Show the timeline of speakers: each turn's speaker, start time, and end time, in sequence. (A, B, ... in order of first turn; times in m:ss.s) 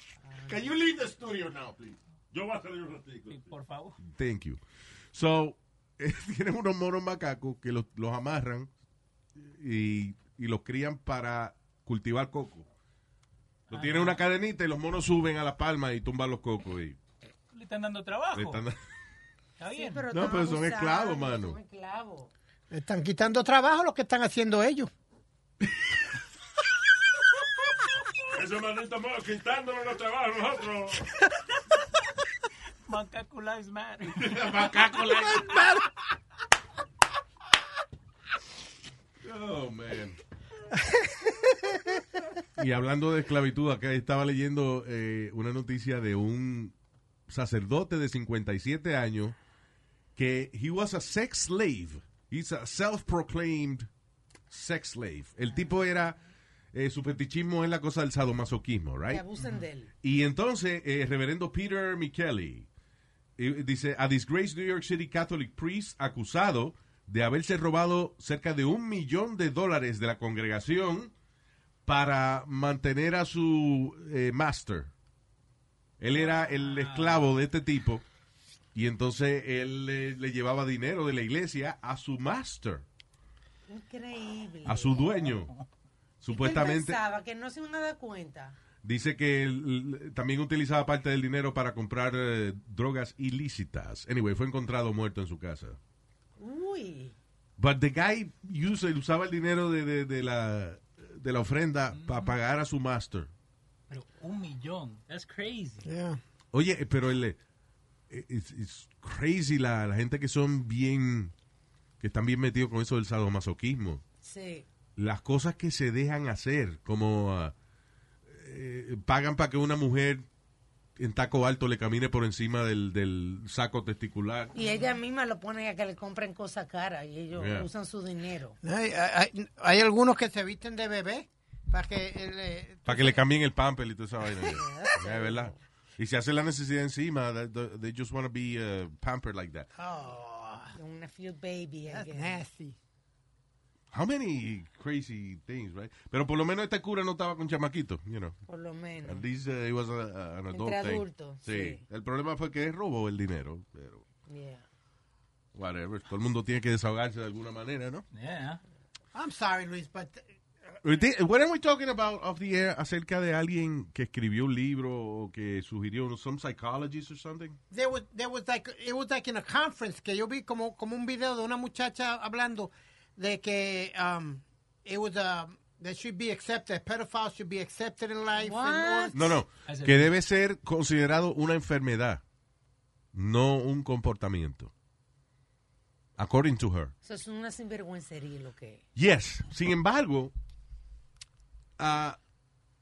0:00.4-0:02.0 A
0:02.3-0:03.5 B
0:03.3-0:04.0 C
0:04.0-0:04.6 A
0:05.1-0:08.7 A
0:09.4-0:12.7 A
0:13.7-0:14.2 C
0:13.7-0:17.0 A
0:17.5-0:18.6 C
0:18.3-0:18.8 A
0:19.6-0:20.0 C
0:19.8-0:22.3 D
0:20.1-0:21.6 A
0:22.7-0:24.9 E
0:28.3-0:31.1 B
0:32.9-0:34.7 C
0:34.2-0:35.9 A
0:39.2-0:40.2 A
0:40.8-0:41.9 E
0:42.6-0:46.8 A
0:47.3-0:49.4 A
0:50.2-0:53.9 A
0:54.5-0:56.2 A
0:56.7-0:59.2 A
0:59.1-0:59.9 D
1:00.0-1:02.7 A
1:03.4-1:11.1 A
1:11.9-1:14.9 A
1:16.0-1:18.0 A
1:16.1-1:17.3 C
1:18.8-1:22.9 A
1:23.7-1:25.3 D
1:24.7-1:25.5 A
1:26.2-1:27.0 A
1:26.3-1:28.6 D
1:28.8-1:35.8 A
1:36.4-1:37.2 D
1:37.6-1:43.3 A
1:41.9-1:42.3 C
1:43.9-1:45.9 C
1:45.8-1:46.2 E
1:46.5-1:47.4 A
1:48.1-1:51.3 A
1:52.0-1:54.0 A
1:54.2-1:54.7 D
1:55.0-1:57.6 A
1:58.3-2:00.3 A
2:01.0-2:04.5 A
2:04.5-2:08.6 D
2:07.4-2:07.7 A
2:08.6-2:13.2 E
2:12.9-2:19.7 A
2:14.4-2:14.7 E
2:14.6-2:15.5 D
2:19.8-2:20.7 E
2:20.7-2:22.4 D
2:21.9-2:22.8 E
2:23.9-2:28.4 A
2:28.5-2:29.2 D
2:29.0-2:34.0 A
2:30.5-2:31.8 D
2:34.3-2:34.6 D
2:35.6-2:38.0 A
2:38.1-2:38.6 C
2:39.1-2:40.3 E
2:40.8-2:47.6 A
2:47.7-2:59.3 E
2:58.4-2:59.4 D
2:59.1-3:02.2 A
2:59.7-3:00.1 C
3:03.1-3:04.7 A
3:06.2-3:06.9 A
3:07.0-3:08.8 D
3:09.0-3:10.3 A
3:11.8-3:12.2 A